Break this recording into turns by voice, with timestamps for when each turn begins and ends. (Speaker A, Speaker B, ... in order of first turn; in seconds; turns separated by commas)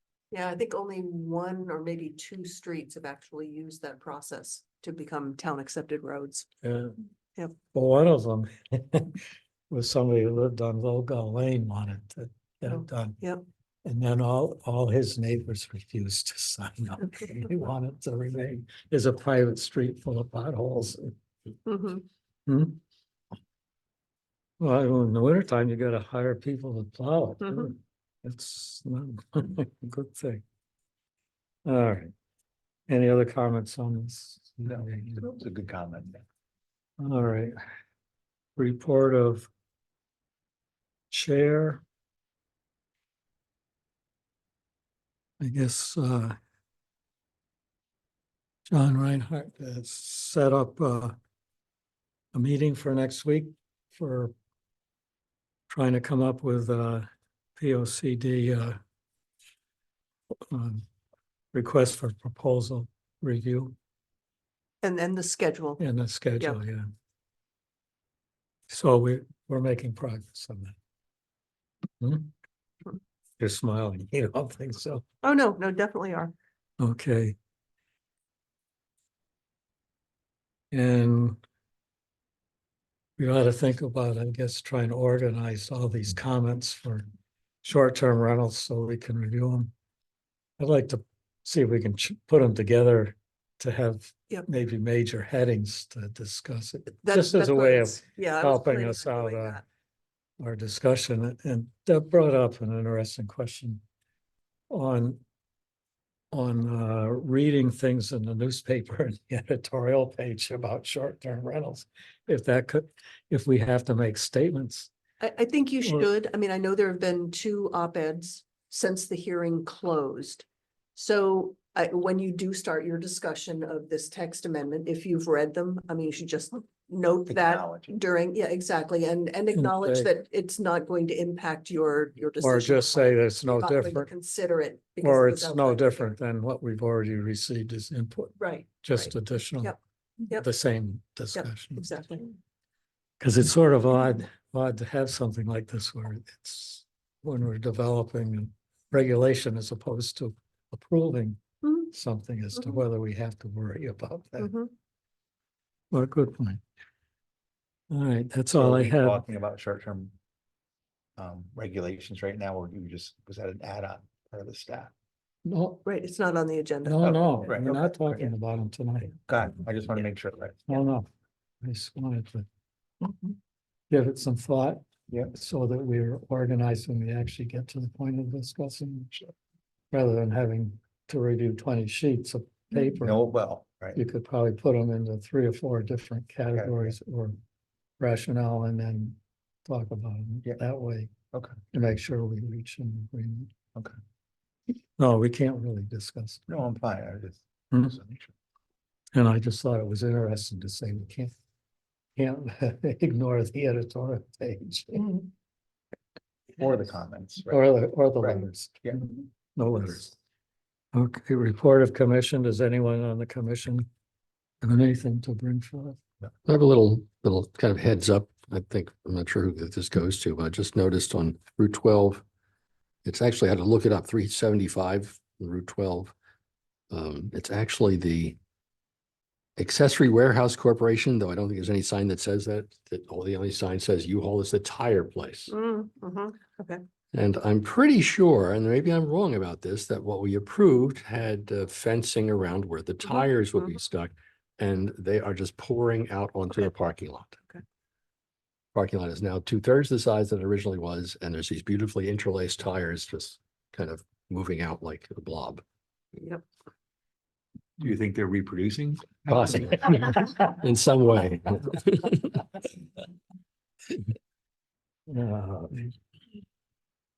Speaker A: 0.3-6.5, Speaker B: 6.6-7.0, Speaker B: 7.7-13.2, Speaker A: 12.7-13.4, Speaker B: 13.8-21.1, Speaker A: 21.6-22.0, Speaker B: 22.5-22.8, Speaker B: 24.6-30.4, Speaker A: 27.4-27.7, Speaker B: 31.6-32.1, Speaker B: 32.9-35.2, Speaker C: 34.6-36.2, Speaker B: 37.0-37.5, Speaker B: 38.6-39.5, Speaker B: 41.1-41.8, Speaker B: 45.4-46.3, Speaker B: 48.7-51.1, Speaker B: 52.3-54.3, Speaker B: 55.7-57.0, Speaker B: 57.6-58.8, Speaker B: 60.5-60.8, Speaker B: 61.5-63.7, Speaker A: 64.8-65.8, Speaker B: 65.8-66.8, Speaker B: 68.7-70.7, Speaker B: 72.0-72.3, Speaker B: 73.4-75.0, Speaker A: 75.2-76.3, Speaker B: 76.8-77.3, Speaker B: 80.7-81.4, Speaker B: 83.2-87.0, Speaker B: 87.6-89.7, Speaker B: 90.6-99.6, Speaker A: 97.0-99.6, Speaker B: 100.4-103.8, Speaker B: 104.7-105.2, Speaker B: 106.3-114.9, Speaker A: 115.2-120.4, Speaker A: 121.0-136.1, Speaker C: 127.3-128.0, Speaker B: 129.5-130.1, Speaker B: 132.4-134.1, Speaker B: 135.0-139.8, Speaker A: 138.4-140.4, Speaker B: 140.3-141.9, Speaker A: 141.3-142.3, Speaker B: 143.2-154.5, Speaker A: 154.4-154.7, Speaker B: 155.9-156.6, Speaker B: 157.9-159.2, Speaker C: 158.5-160.1, Speaker C: 161.2-164.9, Speaker B: 165.4-165.8, Speaker A: 165.8-167.6, Speaker B: 166.8-169.1, Speaker C: 167.0-168.3, Speaker C: 169.3-170.8, Speaker B: 170.7-171.1, Speaker B: 171.6-172.4, Speaker B: 173.0-173.3, Speaker B: 173.9-179.2, Speaker B: 179.9-183.2, Speaker C: 183.0-184.0, Speaker B: 183.9-187.3, Speaker C: 186.5-186.9, Speaker B: 188.0-191.1, Speaker B: 191.7-193.5, Speaker B: 195.0-196.4, Speaker C: 196.5-198.3, Speaker B: 199.1-201.3, Speaker B: 202.2-205.3, Speaker C: 206.6-209.1, Speaker B: 207.5-210.2, Speaker B: 210.9-213.8, Speaker B: 214.6-216.0, Speaker D: 216.4-222.2, Speaker D: 223.0-226.1, Speaker D: 226.9-228.4, Speaker D: 229.6-235.5, Speaker A: 235.5-236.8, Speaker D: 237.1-247.4, Speaker D: 248.7-255.6, Speaker A: 256.2-256.4, Speaker C: 257.8-259.6, Speaker D: 259.3-262.4, Speaker B: 265.1-265.9